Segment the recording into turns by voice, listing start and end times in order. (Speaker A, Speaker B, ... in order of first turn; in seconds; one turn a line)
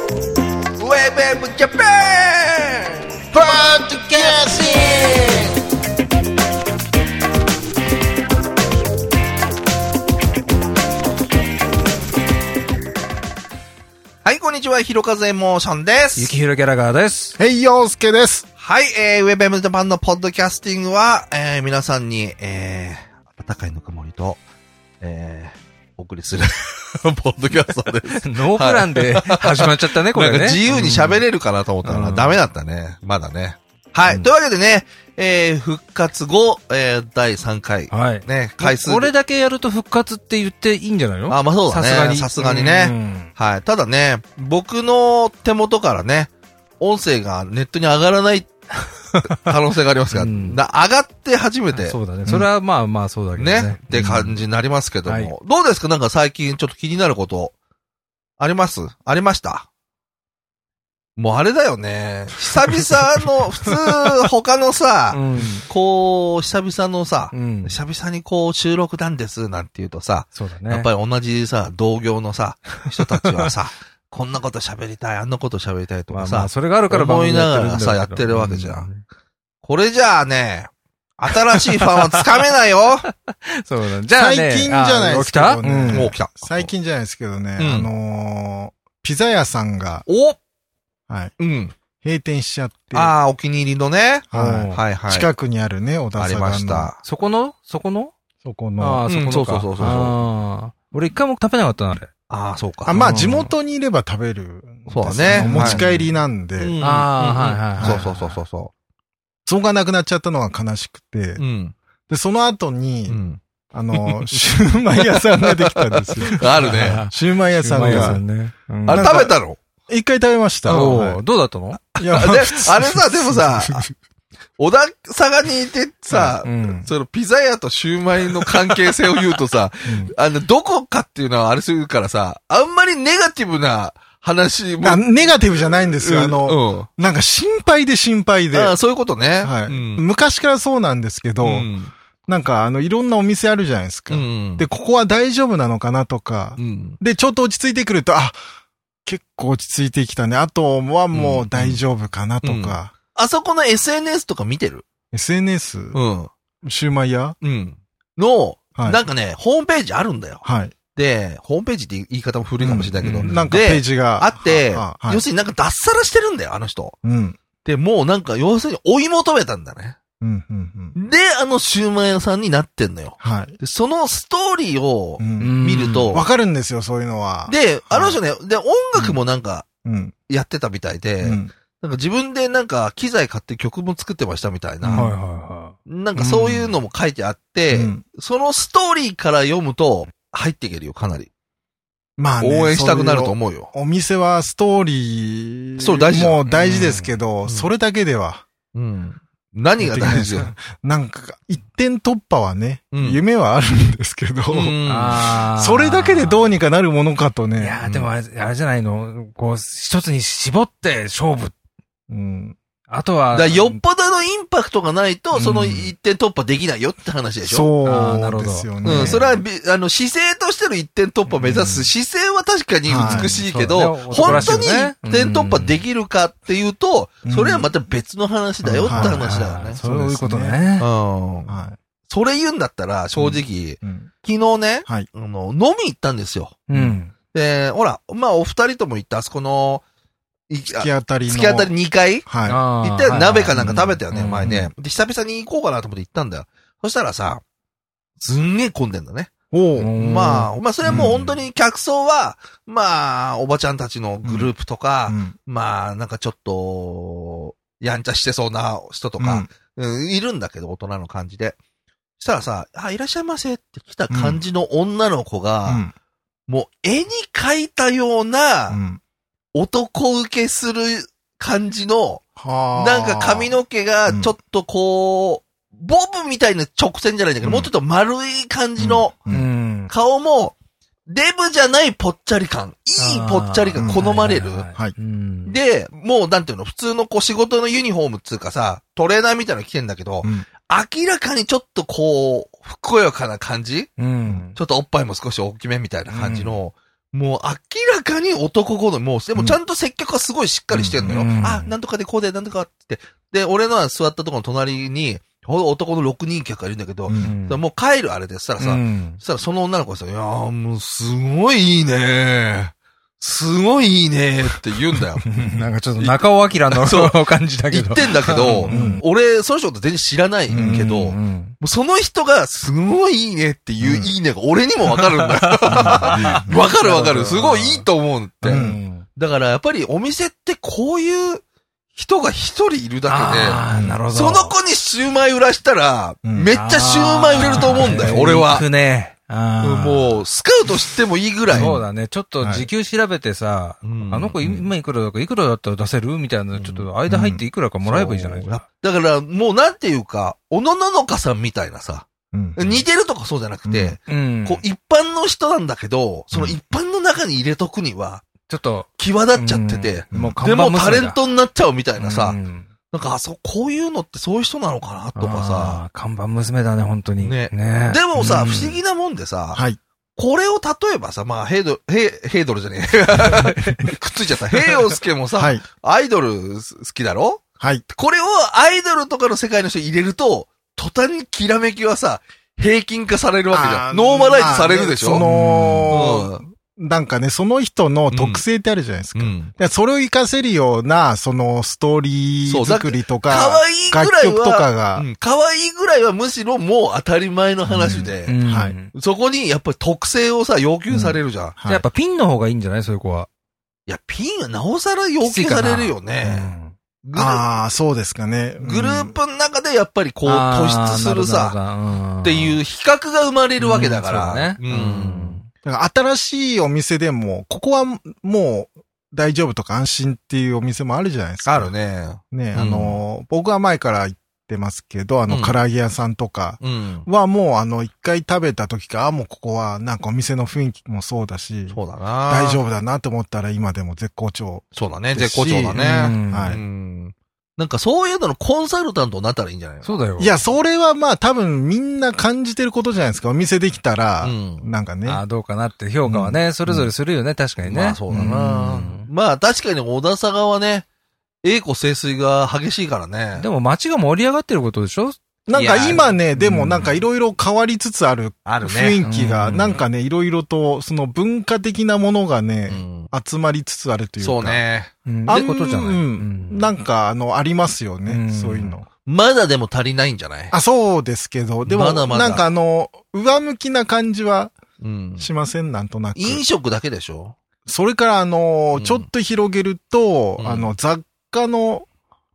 Speaker A: 0.8-3.0
Speaker B: 3.3-5.5
Speaker A: 14.2-16.3
Speaker B: 16.1-17.4
Speaker C: 17.4-18.4
Speaker A: 18.6-24.4
Speaker A: 25.0-39.1
Speaker B: 28.1-31.2
Speaker B: 31.8-32.4
Speaker B: 37.9-43.3
Speaker A: 41.3-48.5
Speaker B: 49.1-49.5
Speaker A: 49.4-52.0
Speaker B: 50.1-50.6
Speaker B: 51.7-54.4
Speaker A: 53.4-57.5
Speaker B: 55.0-55.3
Speaker A: 58.4-59.7
Speaker A: 61.2-78.9
Speaker B: 65.1-65.7
Speaker B: 67.3-67.8
Speaker B: 70.3-70.9
Speaker B: 72.8-73.5
Speaker B: 76.1-79.0
Speaker A: 79.6-83.1
Speaker B: 81.3-82.2
Speaker B: 83.1-86.1
Speaker C: 84.1-90.1
Speaker A: 85.9-86.7
Speaker A: 87.6-87.9
Speaker A: 90.1-90.4
Speaker C: 91.1-91.3
Speaker A: 91.4-91.7
Speaker C: 92.0-93.1
Speaker A: 92.9-95.3
Speaker C: 94.3-96.9
Speaker B: 94.3-94.8
Speaker A: 96.2-97.0
Speaker B: 97.0-98.1
Speaker C: 98.4-99.0
Speaker B: 98.8-102.1
Speaker A: 99.1-100.2
Speaker A: 102.3-103.0
Speaker C: 102.8-106.8
Speaker B: 102.9-103.5
Speaker A: 104.9-105.8
Speaker B: 105.3-106.1
Speaker A: 106.6-108.7
Speaker B: 106.8-108.3
Speaker C: 107.8-108.2
Speaker C: 109.5-111.4
Speaker A: 111.4-111.7
Speaker C: 112.1-113.2
Speaker A: 113.1-113.4
Speaker C: 113.7-118.2
Speaker A: 113.9-117.1
Speaker B: 116.6-119.1
Speaker A: 117.8-118.2
Speaker A: 118.8-119.6
Speaker C: 118.9-119.3
Speaker C: 119.9-121.2
Speaker A: 120.7-121.0
Speaker B: 120.7-121.8
Speaker A: 121.8-123.9
Speaker C: 122.0-123.9
Speaker A: 124.6-135.3
Speaker C: 126.1-126.4
Speaker B: 126.4-126.9
Speaker C: 129.8-130.1
Speaker C: 134.8-138.8
Speaker A: 135.8-136.9
Speaker A: 138.5-140.0
Speaker C: 139.4-141.7
Speaker A: 141.4-141.9
Speaker C: 142.3-148.4
Speaker A: 144.1-144.7
Speaker A: 146.6-147.0
Speaker C: 149.1-152.9
Speaker A: 151.1-151.8
Speaker A: 152.4-154.8
Speaker C: 155.1-156.0
Speaker A: 155.9-156.3
Speaker C: 156.6-157.3
Speaker A: 157.4-160.4
Speaker C: 158.8-159.0
Speaker C: 160.4-160.8
Speaker A: 160.9-166.9
Speaker C: 162.6-165.2
Speaker B: 163.0-163.5
Speaker C: 167.0-167.4
Speaker A: 167.6-170.0
Speaker C: 170.2-170.9
Speaker A: 170.9-176.3
Speaker C: 173.2-173.6
Speaker C: 175.2-175.6
Speaker B: 175.4-176.2
Speaker C: 176.1-178.2
Speaker A: 177.5-179.7
Speaker C: 179.8-180.1
Speaker A: 180.3-185.1
Speaker C: 181.2-181.5
Speaker C: 184.8-185.1
Speaker B: 184.9-186.7
Speaker A: 185.9-191.3
Speaker C: 187.7-188.0
Speaker C: 192.2-198.4
Speaker A: 192.4-193.7
Speaker A: 195.8-196.4
Speaker B: 196.4-197.1
Speaker A: 197.4-197.7
Speaker A: 198.7-200.5
Speaker C: 199.8-204.8
Speaker A: 202.9-203.2
Speaker A: 204.5-205.2
Speaker B: 204.8-206.5
Speaker C: 205.6-207.8
Speaker B: 207.6-211.5
Speaker A: 207.8-208.1
Speaker C: 212.1-212.6
Speaker B: 212.9-213.8
Speaker A: 213.3-217.7
Speaker B: 215.3-215.9
Speaker C: 217.4-219.4
Speaker B: 217.8-219.2
Speaker A: 218.8-229.8
Speaker B: 221.3-221.9
Speaker C: 222.8-223.4
Speaker B: 223.0-225.8
Speaker C: 224.2-224.6
Speaker C: 227.2-227.7
Speaker B: 228.6-230.9
Speaker C: 228.8-230.6
Speaker A: 230.8-231.5
Speaker C: 231.4-231.8
Speaker A: 232.1-236.6
Speaker C: 233.1-234.1
Speaker B: 236.7-237.1
Speaker C: 236.7-237.0
Speaker A: 237.3-239.8
Speaker A: 240.5-242.3
Speaker C: 240.7-241.7
Speaker C: 242.2-242.6
Speaker B: 242.4-244.5
Speaker A: 242.8-247.4
Speaker C: 243.5-244.7
Speaker A: 248.2-249.3
Speaker C: 249.5-249.9
Speaker B: 249.8-251.1
Speaker A: 249.9-261.6
Speaker C: 250.8-251.4
Speaker C: 254.2-254.5
Speaker C: 255.1-255.3
Speaker C: 259.2-259.5
Speaker A: 262.2-265.8
Speaker C: 264.1-264.4
Speaker C: 265.6-265.9
Speaker A: 266.5-268.8
Speaker C: 268.7-269.0
Speaker A: 269.5-272.2
Speaker C: 272.4-274.3
Speaker A: 272.7-279.2
Speaker C: 277.4-277.7
Speaker C: 278.8-279.5
Speaker B: 279.3-279.9
Speaker A: 279.9-280.5
Speaker A: 281.1-284.7
Speaker B: 283.0-285.6
Speaker C: 283.8-284.1
Speaker A: 285.5-293.9
Speaker B: 294.0-294.6
Speaker A: 294.5-315.3
Speaker C: 296.1-296.5
Speaker C: 300.7-301.3
Speaker B: 301.0-301.7
Speaker C: 307.1-307.3
Speaker B: 307.2-307.6
Speaker B: 308.6-309.2
Speaker B: 315.2-319.0
Speaker A: 316.0-317.1
Speaker A: 317.7-331.4
Speaker C: 318.7-319.0
Speaker C: 320.5-320.9
Speaker B: 320.5-321.6
Speaker C: 323.8-324.1
Speaker B: 324.9-327.9
Speaker C: 325.7-326.6
Speaker B: 328.4-329.1
Speaker C: 328.5-328.8
Speaker A: 331.9-338.6
Speaker B: 333.1-334.5
Speaker C: 333.7-334.0
Speaker C: 336.2-336.5
Speaker B: 336.5-340.2
Speaker C: 337.4-338.1
Speaker A: 339.6-341.8
Speaker C: 341.5-341.8
Speaker B: 341.5-348.5
Speaker C: 342.4-342.7
Speaker A: 343.8-344.4
Speaker A: 346.5-346.9
Speaker C: 347.1-347.4
Speaker A: 347.8-358.2
Speaker C: 352.3-352.8
Speaker C: 353.6-354.0
Speaker B: 354.1-354.6
Speaker C: 356.3-356.6
Speaker B: 358.5-361.2
Speaker A: 359.0-362.4
Speaker C: 360.1-360.4
Speaker B: 362.0-362.7
Speaker A: 362.9-365.8
Speaker B: 365.1-368.8
Speaker A: 367.2-369.6
Speaker C: 369.5-369.8
Speaker A: 370.1-385.2
Speaker B: 373.4-373.9
Speaker C: 375.4-375.6
Speaker C: 383.5-395.1
Speaker B: 385.1-386.0
Speaker A: 385.9-386.4
Speaker A: 388.1-388.4
Speaker A: 389.1-389.5
Speaker A: 392.4-398.4
Speaker C: 397.7-398.7
Speaker B: 398.2-398.9
Speaker A: 398.9-401.6
Speaker C: 400.9-401.8
Speaker B: 401.6-403.3
Speaker A: 403.9-406.5
Speaker B: 405.2-406.7
Speaker A: 407.0-407.4
Speaker C: 407.1-409.2
Speaker A: 408.6-411.6
Speaker B: 410.2-412.6
Speaker A: 412.2-415.4
Speaker B: 413.6-415.5
Speaker C: 415.6-421.7
Speaker A: 421.4-423.0
Speaker C: 422.3-431.8
Speaker A: 425.3-425.6
Speaker A: 426.6-427.1
Speaker A: 431.7-432.6
Speaker C: 432.3-436.6
Speaker A: 434.7-439.9
Speaker B: 435.7-436.6
Speaker B: 439.8-440.4
Speaker C: 440.2-445.2
Speaker A: 444.2-444.7
Speaker B: 445.0-449.1
Speaker C: 446.1-446.9
Speaker A: 447.6-450.9
Speaker A: 451.4-453.5
Speaker B: 453.4-457.0
Speaker C: 455.5-464.6
Speaker A: 455.5-456.1
Speaker A: 458.4-459.0
Speaker B: 459.0-459.8
Speaker A: 462.7-463.1
Speaker A: 464.2-464.9
Speaker B: 465.1-466.7
Speaker C: 465.3-468.9
Speaker B: 468.1-468.8
Speaker A: 469.0-470.5
Speaker C: 470.5-474.6
Speaker A: 471.6-472.4
Speaker A: 474.8-475.3
Speaker C: 475.2-476.4
Speaker A: 476.1-477.4
Speaker C: 477.6-481.9
Speaker A: 478.8-479.1
Speaker A: 480.4-480.7